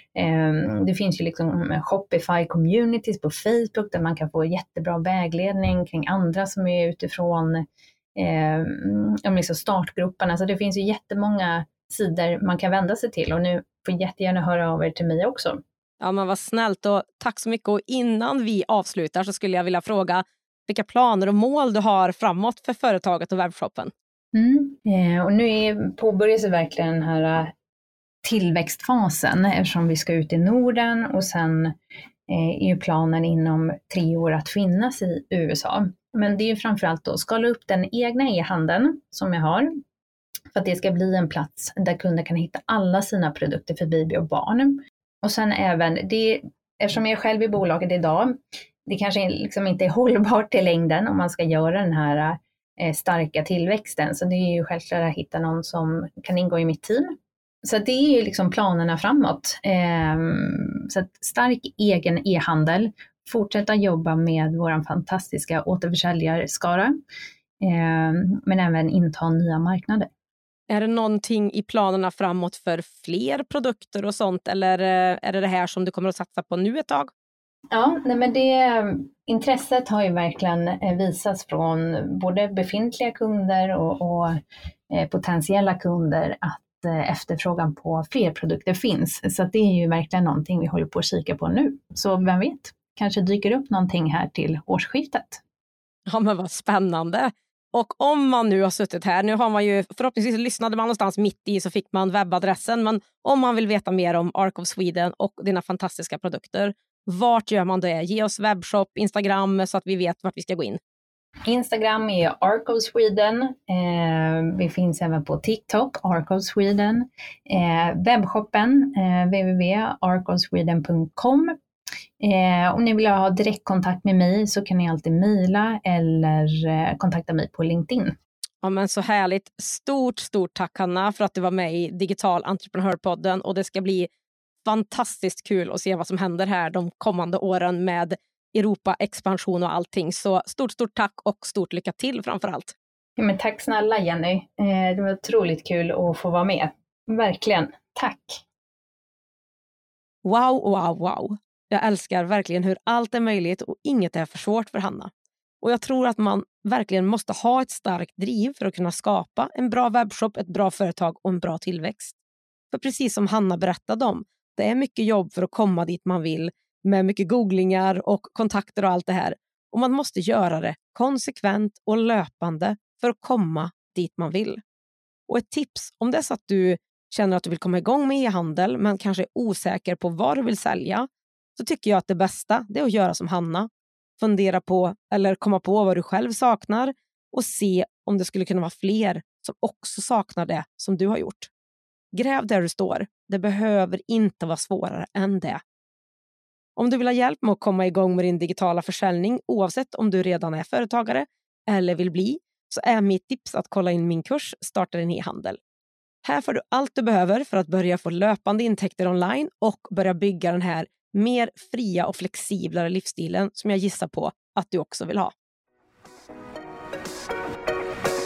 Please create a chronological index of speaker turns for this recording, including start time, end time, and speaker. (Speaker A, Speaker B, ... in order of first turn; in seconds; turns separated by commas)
Speaker A: 0.1-15.6, Speaker B: 16.0-23.9, Speaker A: 24.3-27.5, Speaker A: 28.2-31.8, Speaker A: 32.3-39.8, Speaker A: 40.5-48.3, Speaker A: 48.8-66.9, Speaker A: 67.6-70.1, Speaker B: 70.7-77.1, Speaker A: 77.7-95.4, Speaker B: 96.1-110.8, Speaker A: 111.5-121.5, Speaker A: 122.2-128.2, Speaker B: 128.6-134.1, Speaker B: 134.6-142.8, Speaker A: 143.2-148.4, Speaker B: 150.2-162.1, Speaker B: 162.7-174.6, Speaker B: 175.3-191.5, Speaker B: 192.1-195.6, Speaker B: 196.8-205.6, Speaker B: 206.2-215.3